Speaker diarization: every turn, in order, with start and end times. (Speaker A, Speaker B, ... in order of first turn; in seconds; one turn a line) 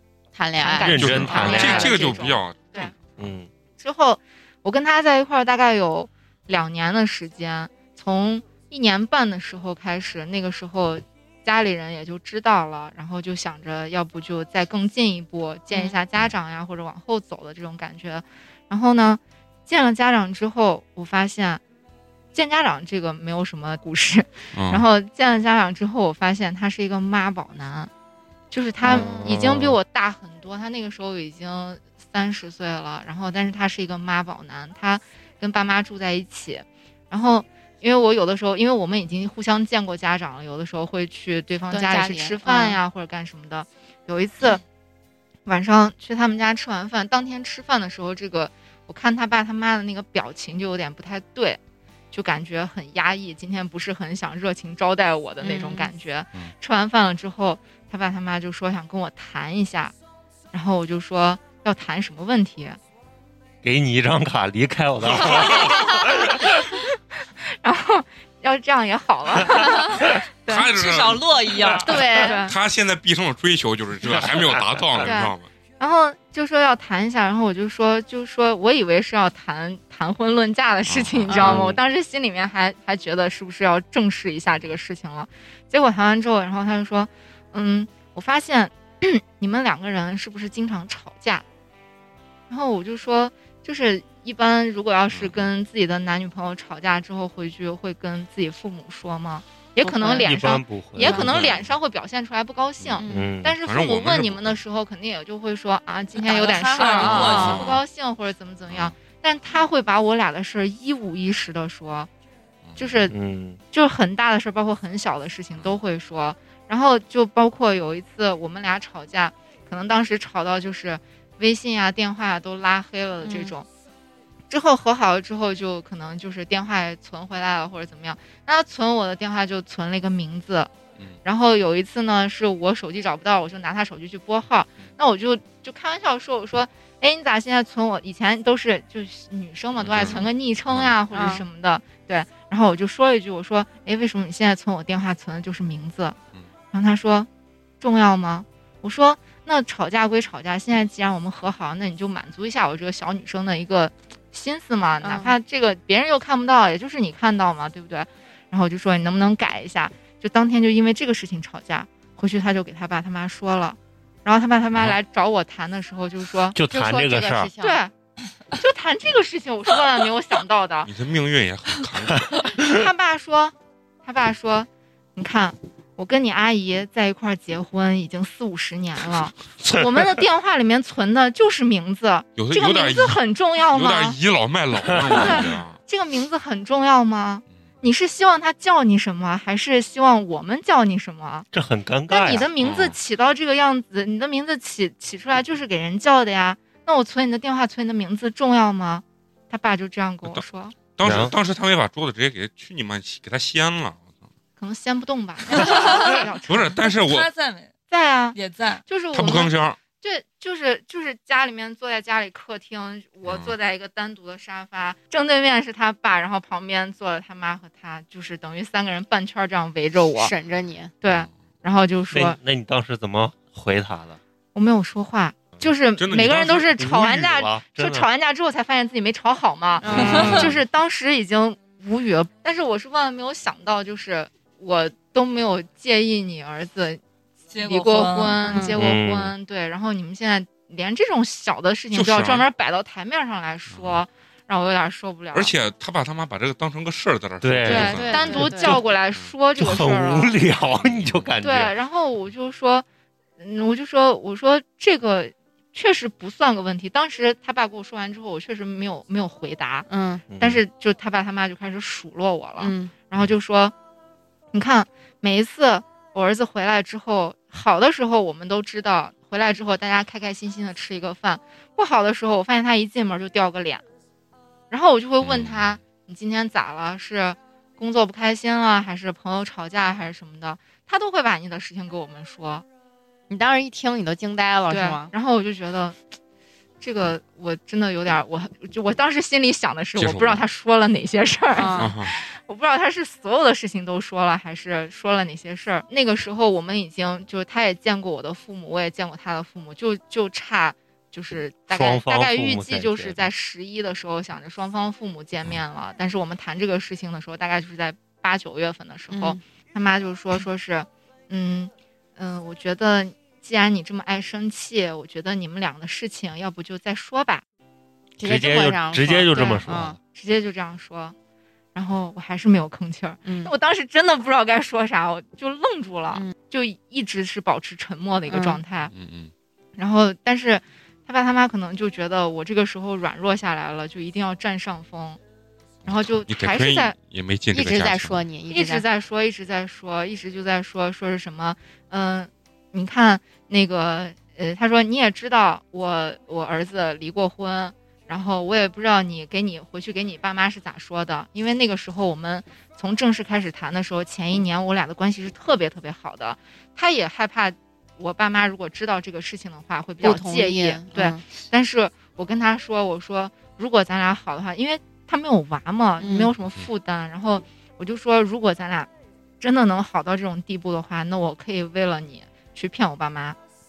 Speaker A: 0.3-1.7
Speaker B: 0.6-2.9
Speaker C: 0.8-2.1
Speaker D: 0.9-3.0
Speaker C: 3.2-3.5
Speaker B: 3.8-21.6
Speaker B: 22.3-27.9
Speaker D: 24.5-24.9
Speaker B: 28.5-44.6
Speaker C: 28.9-29.8
Speaker A: 41.7-42.8
Speaker B: 45.5-51.6
Speaker B: 52.1-59.9
Speaker A: 55.4-55.9
Speaker B: 60.5-62.8
Speaker C: 63.6-66.5
Speaker D: 65.1-65.8
Speaker B: 67.6-70.7
Speaker D: 70.5-75.5
Speaker E: 70.7-72.2
Speaker A: 71.8-72.4
Speaker B: 71.9-72.5
Speaker C: 74.2-74.6
Speaker B: 75.0-91.4
Speaker D: 80.9-81.6
Speaker A: 81.3-81.6
Speaker C: 81.4-81.8
Speaker B: 92.5-112.1
Speaker D: 95.1-95.5
Speaker A: 99.8-101.3
Speaker C: 100.0-101.5
Speaker D: 101.2-101.7
Speaker A: 103.0-103.3
Speaker C: 103.1-103.6
Speaker D: 103.6-104.6
Speaker E: 106.2-107.7
Speaker A: 106.8-107.7
Speaker D: 107.1-107.8
Speaker D: 108.7-109.0
Speaker D: 112.7-113.1
Speaker B: 112.8-113.1
Speaker C: 113.1-113.6
Speaker B: 113.7-123.7
Speaker A: 123.2-123.5
Speaker B: 124.5-130.7
Speaker B: 131.2-146.2
Speaker D: 139.8-140.9
Speaker A: 141.1-141.4
Speaker B: 146.7-147.3
Speaker B: 147.8-166.6
Speaker A: 155.0-155.3
Speaker C: 166.6-167.5
Speaker A: 166.7-167.8
Speaker B: 167.6-167.9
Speaker B: 168.6-170.9
Speaker D: 170.9-172.4
Speaker B: 172.6-184.2
Speaker D: 182.4-183.2
Speaker D: 183.7-185.8
Speaker B: 185.2-191.5
Speaker C: 191.5-192.5
Speaker B: 192.1-200.8
Speaker D: 192.6-193.0
Speaker D: 201.0-204.1
Speaker C: 201.0-201.3
Speaker B: 204.6-206.8
Speaker E: 205.6-205.9
Speaker D: 206.5-207.3
Speaker E: 206.8-207.7
Speaker B: 207.9-220.3
Speaker E: 208.3-208.8
Speaker D: 209.1-209.8
Speaker D: 213.2-213.5
Speaker A: 220.2-220.9
Speaker B: 221.0-222.4
Speaker C: 222.1-224.2
Speaker B: 224.5-237.0
Speaker D: 226.0-226.7
Speaker C: 226.8-228.1
Speaker A: 229.8-230.4
Speaker C: 229.9-230.5
Speaker E: 230.1-230.4
Speaker D: 230.1-230.4
Speaker E: 237.5-238.6
Speaker B: 237.6-245.6
Speaker A: 238.5-238.8
Speaker C: 238.6-239.3
Speaker D: 241.9-242.5
Speaker D: 243.7-244.0
Speaker D: 245.3-249.3
Speaker C: 247.4-248.8
Speaker B: 247.7-250.3
Speaker A: 247.7-248.8
Speaker C: 249.6-251.7
Speaker D: 250.7-251.3
Speaker B: 251.4-252.8
Speaker B: 253.4-259.9
Speaker A: 259.9-260.2
Speaker C: 260.3-260.6
Speaker B: 260.4-263.7
Speaker A: 262.6-262.9
Speaker B: 264.5-273.8
Speaker B: 274.7-282.6
Speaker D: 275.2-275.8
Speaker A: 283.3-285.1
Speaker B: 284.7-286.0
Speaker B: 286.8-317.4
Speaker D: 290.0-290.4
Speaker A: 291.6-291.9
Speaker D: 291.8-292.1
Speaker C: 301.7-303.3
Speaker A: 309.1-309.4
Speaker A: 318.2-320.0
Speaker C: 318.2-320.0
Speaker B: 319.0-321.1
Speaker B: 321.8-328.9
Speaker A: 323.2-323.5
Speaker A: 328.3-328.6
Speaker D: 328.9-329.3
Speaker B: 329.8-335.2
Speaker D: 335.8-338.2
Speaker B: 335.9-336.9
Speaker A: 337.5-338.9
Speaker B: 338.5-368.9
Speaker A: 360.0-361.2
Speaker A: 366.0-366.3
Speaker B: 369.4-373.4